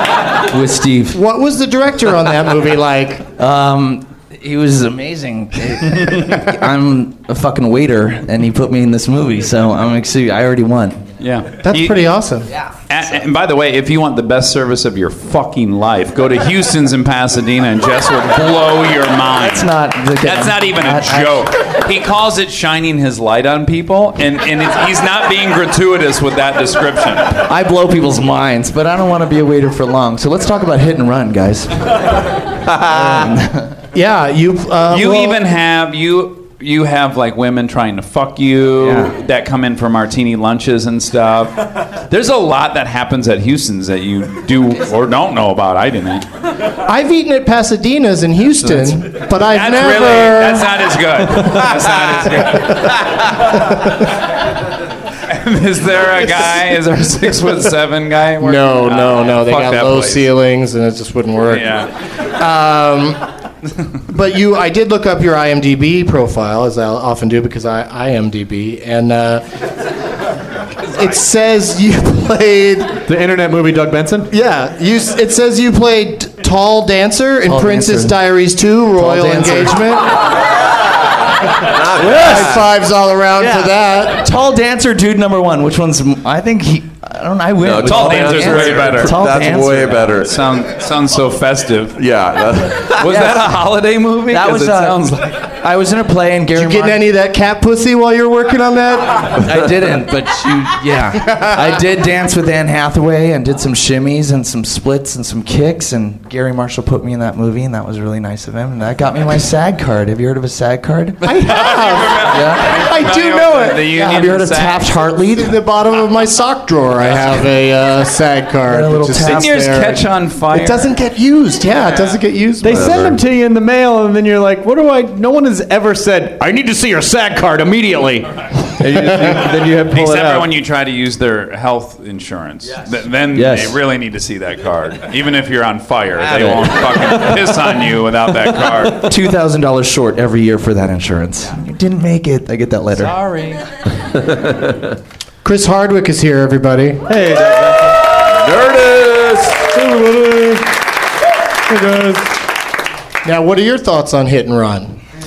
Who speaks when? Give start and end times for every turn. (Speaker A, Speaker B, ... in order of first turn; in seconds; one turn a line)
Speaker A: 0.5-1.2
Speaker B: 1.1-3.3
Speaker A: 3.4-11.1
Speaker C: 11.2-12.1
Speaker B: 11.6-12.5
Speaker C: 12.9-27.4
Speaker A: 19.4-21.4
Speaker A: 27.5-33.8
Speaker B: 33.9-35.4
Speaker C: 34.9-46.2
Speaker A: 38.8-39.1
Speaker B: 46.9-50.7
Speaker A: 48.6-49.0
Speaker C: 49.5-53.5
Speaker C: 55.2-60.3
Speaker B: 58.4-63.2
Speaker C: 61.5-61.9
Speaker B: 64.1-69.4
Speaker B: 70.9-73.0
Speaker D: 73.1-74.3
Speaker B: 74.3-80.1
Speaker A: 77.5-78.1
Speaker A: 79.0-79.8
Speaker E: 81.6-82.6
Speaker A: 82.0-82.6
Speaker B: 82.1-84.3
Speaker A: 83.4-90.1
Speaker E: 87.6-90.4
Speaker C: 87.8-89.2
Speaker C: 89.9-92.0
Speaker E: 92.0-93.0
Speaker C: 92.9-95.5
Speaker A: 93.0-93.5
Speaker A: 94.3-97.0
Speaker B: 96.5-99.4
Speaker A: 99.4-111.3
Speaker B: 111.2-114.2
Speaker C: 111.4-114.9
Speaker A: 112.3-112.8
Speaker A: 113.9-115.6
Speaker B: 115.3-123.1
Speaker A: 118.7-119.5
Speaker C: 119.2-120.9
Speaker D: 122.6-126.4
Speaker E: 122.7-123.2
Speaker A: 126.4-128.4
Speaker D: 128.8-130.5
Speaker C: 129.9-139.1
Speaker A: 133.3-133.8
Speaker A: 136.3-136.6
Speaker D: 137.1-137.8
Speaker D: 138.4-138.8
Speaker A: 139.1-143.2
Speaker C: 142.9-143.6
Speaker E: 144.1-144.9
Speaker B: 145.4-147.1
Speaker D: 147.1-148.0
Speaker E: 148.3-149.6
Speaker D: 149.7-150.7
Speaker D: 151.7-152.4
Speaker B: 153.2-155.0